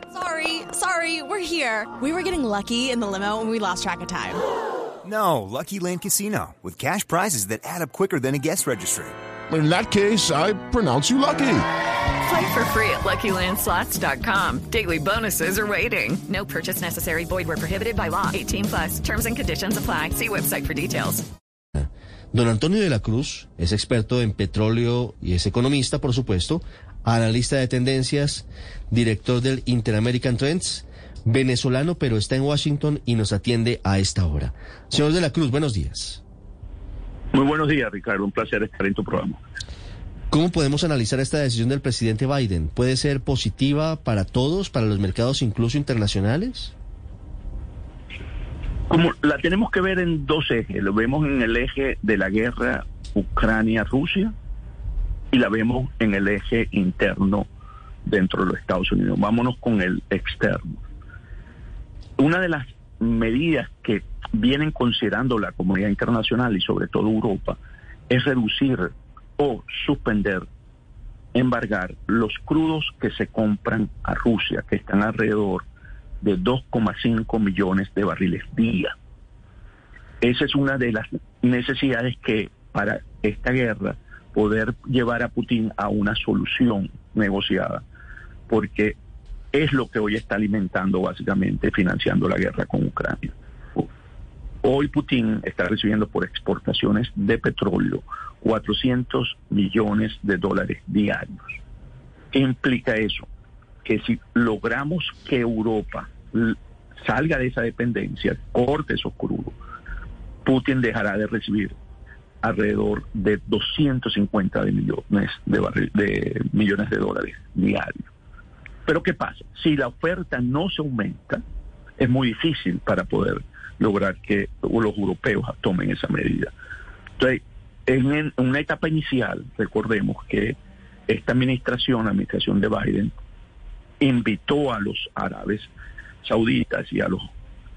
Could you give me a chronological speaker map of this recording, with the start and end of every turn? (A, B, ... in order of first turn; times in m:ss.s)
0:00.1-0:04.4 A
0:05.0-0:09.2 B
0:09.5-0:11.6 C
0:12.2-0:21.2 D
0:21.8-0:36.2 E
0:37.3-0:39.4 F
0:40.3-0:46.7 E
0:48.9-0:54.3 F
0:55.3-0:57.4 F
0:58.0-1:00.8 F
1:02.2-1:07.6 F
1:08.1-1:10.4 F
1:11.3-1:15.6 F
1:16.2-1:18.9 F
1:20.2-1:27.8 F
1:28.5-1:28.9 F
1:29.5-1:33.9 F
1:34.6-1:41.6 F
1:42.3-1:43.2 F
1:43.8-1:49.5 F
1:50.4-1:51.7 F
1:52.4-1:58.0 F
1:58.9-2:01.4 F
2:02.0-2:06.5 F
2:07.2-2:10.6 F
2:11.1-2:13.1 F
2:14.0-2:15.7 F
2:16.2-2:17.3 F